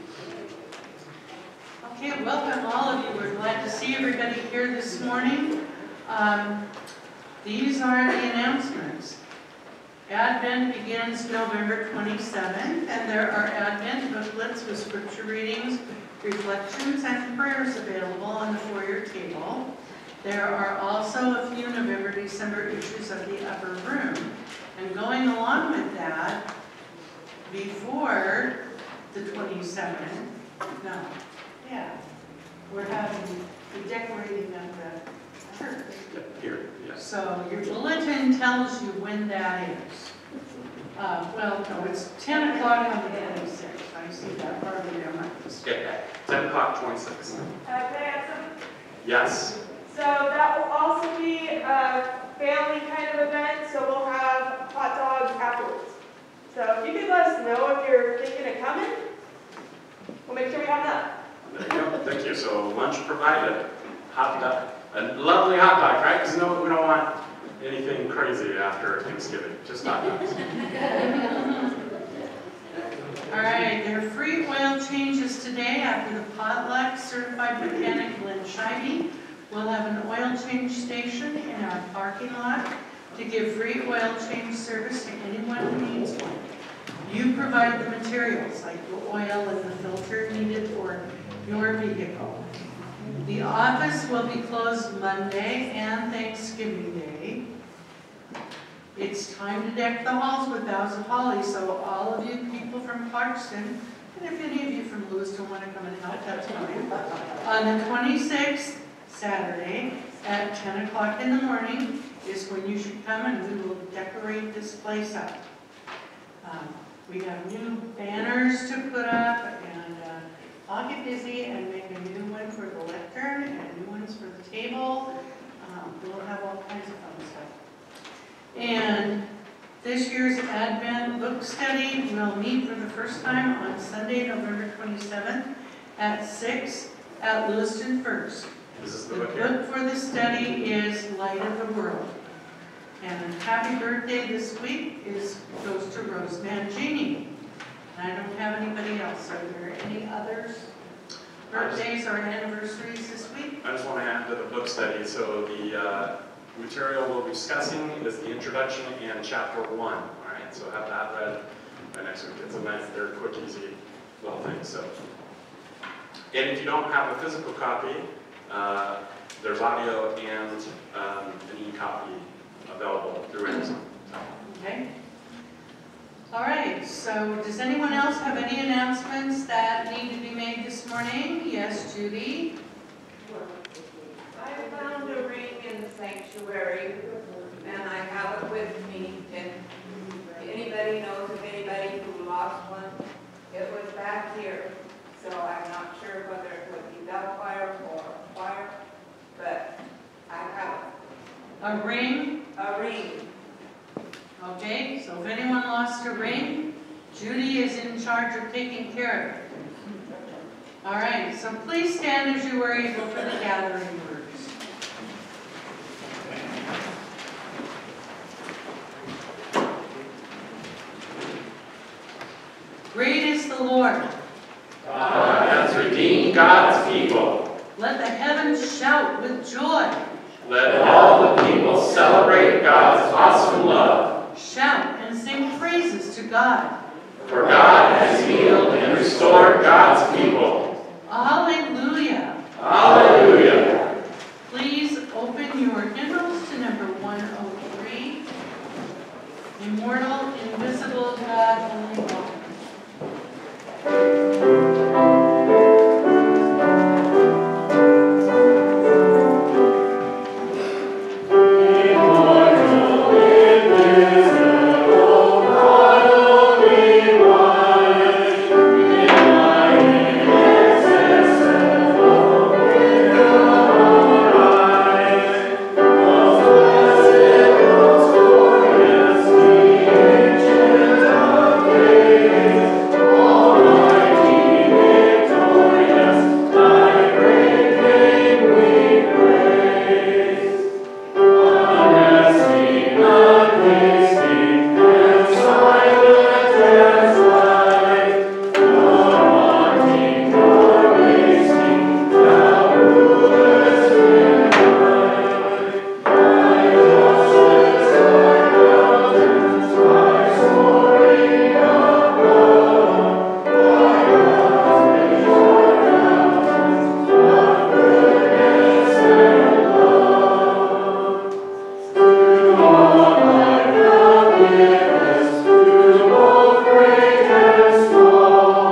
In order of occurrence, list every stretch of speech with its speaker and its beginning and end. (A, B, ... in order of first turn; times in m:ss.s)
0:01.8-0:06.7 A
0:07.4-0:09.2 A
0:10.1-0:19.7 A
0:20.2-0:26.4 A
0:27.4-0:32.0 A
0:32.7-0:36.1 A
0:36.1-0:37.0 B
0:37.0-0:40.1 A
0:40.9-0:45.6 A
0:45.6-0:47.4 B
0:47.6-0:48.5 C
0:49.0-0:49.6 B
0:49.8-0:56.0 C
0:56.5-0:59.0 C
1:00.2-1:01.1 C
1:01.4-1:10.5 B
1:11.0-1:11.7 A
1:13.3-1:26.5 A
1:27.0-1:32.4 A
1:33.2-1:37.4 A
1:38.9-1:55.4 A
1:56.4-2:07.6 A
2:08.5-2:09.2 A
2:09.8-2:18.5 A
2:18.8-2:19.6 B
2:19.1-2:22.2 A
2:23.0-2:27.3 A
2:27.9-2:30.7 A
2:31.5-2:33.6 A
2:31.5-2:31.8 B
2:33.6-2:41.4 B
2:41.9-2:44.9 B
2:46.3-2:54.0 B
2:54.4-2:54.8 A
2:56.3-3:02.5 A
3:03.2-3:09.6 D
3:04.5-3:04.8 C
3:10.3-3:18.7 D
3:19.3-3:19.7 D
3:20.3-3:20.9 D
3:21.6-3:22.4 A
3:22.5-3:23.3 D
3:24.4-3:29.5 A
3:30.8-3:34.5 A
3:42.9-3:44.1 A
3:44.8-3:47.5 B
3:47.7-3:50.0 A
3:50.4-3:54.2 B
3:54.3-3:56.8 A
3:57.2-4:00.7 B
4:01.0-4:02.4 A
4:02.6-4:03.8 B
4:04.4-4:08.3 A
4:09.6-4:12.6 A
4:51.9-4:52.9 B
4:54.1-4:54.5 B